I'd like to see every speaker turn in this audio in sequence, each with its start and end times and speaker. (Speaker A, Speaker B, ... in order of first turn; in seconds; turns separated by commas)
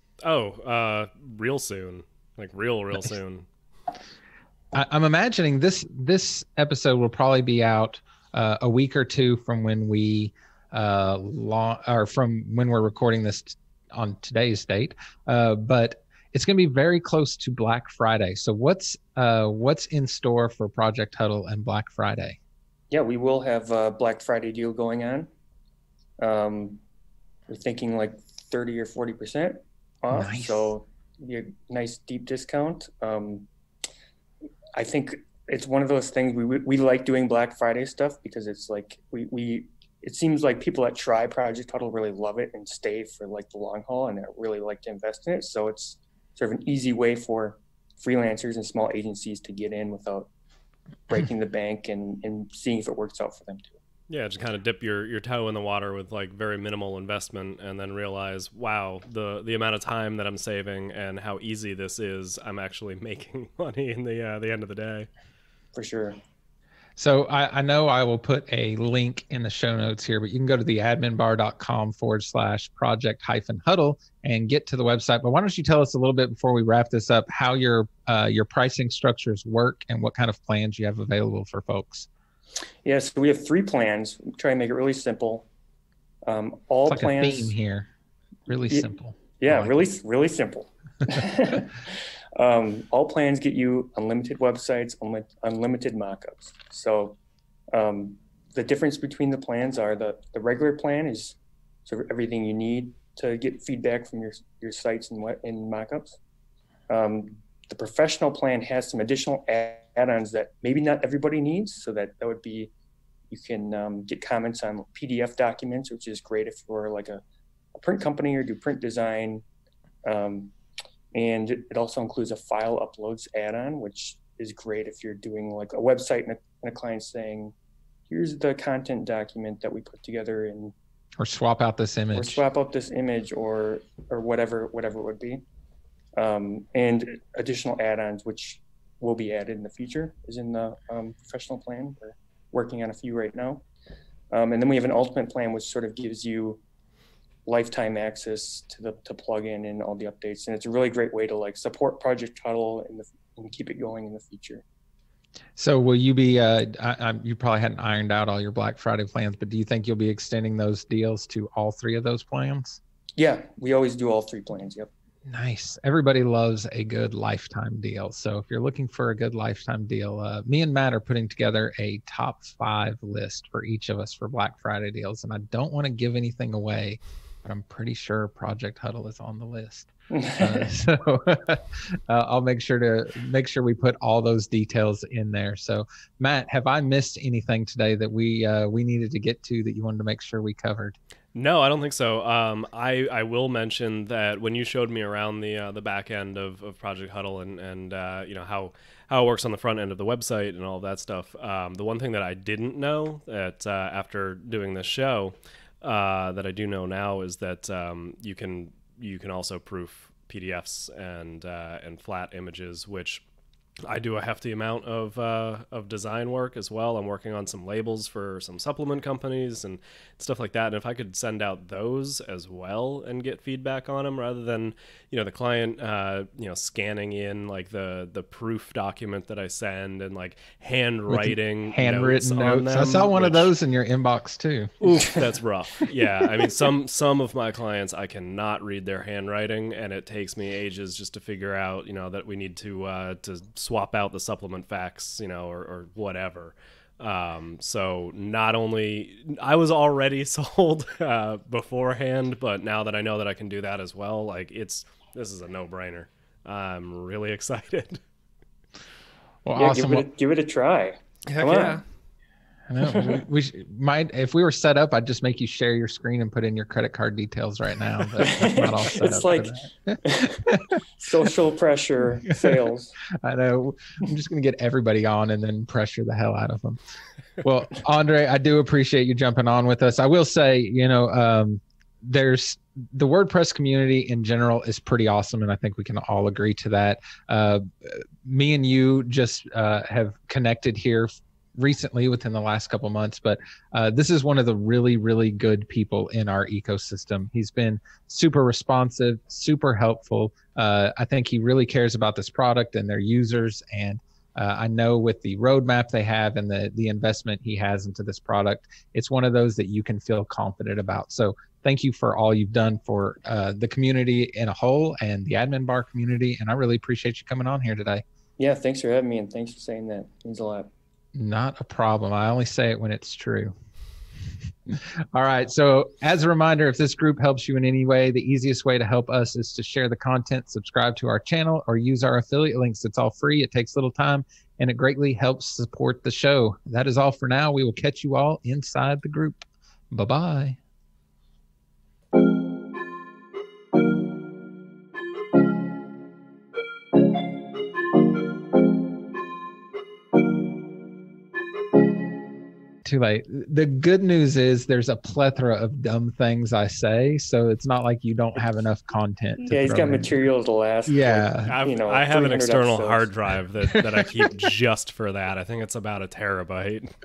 Speaker A: 0.2-3.5, Speaker B: 4.7-22.4, Speaker C: 22.9-25.3, Speaker C: 26.2-26.8, Speaker C: 27.5-33.5, Speaker B: 30.1-30.7, Speaker C: 34.8-50.3, Speaker C: 51.1-53.8, Speaker A: 54.1-65.1, Speaker C: 65.7-66.2, Speaker B: 67.0-82.1, Speaker C: 82.8-85.5, Speaker C: 86.2-87.5, Speaker B: 86.9-87.9, Speaker B: 88.5-89.8, Speaker C: 89.4-97.2, Speaker C: 97.7-106.2, Speaker C: 106.9-112.7, Speaker C: 113.3-117.2, Speaker C: 117.7-119.4, Speaker C: 120.0-120.5, Speaker C: 121.1-127.5, Speaker C: 128.1-130.7, Speaker B: 131.2-132.4, Speaker C: 132.1-135.4, Speaker C: 136.2-143.6, Speaker C: 144.3-146.6, Speaker C: 147.4-154.6, Speaker B: 155.6-162.8, Speaker C: 163.2-164.9, Speaker B: 165.3-190.9, Speaker C: 180.1-180.7, Speaker A: 191.3-213.2, Speaker A: 213.8-233.5, Speaker B: 231.1-234.9, Speaker A: 234.8-258.0, Speaker B: 259.4-260.1, Speaker C: 259.5-261.8, Speaker A: 261.3-261.8, Speaker B: 262.7-270.8, Speaker C: 262.8-263.2, Speaker C: 268.2-273.0, Speaker B: 272.3-272.6, Speaker B: 273.1-276.8, Speaker B: 277.4-318.0, Speaker C: 318.4-320.7, Speaker B: 321.1-323.5, Speaker B: 324.7-340.6, Speaker B: 352.8-360.1, Speaker C: 359.4-363.1, Speaker B: 360.9-361.6, Speaker A: 361.4-366.9, Speaker B: 363.8-364.0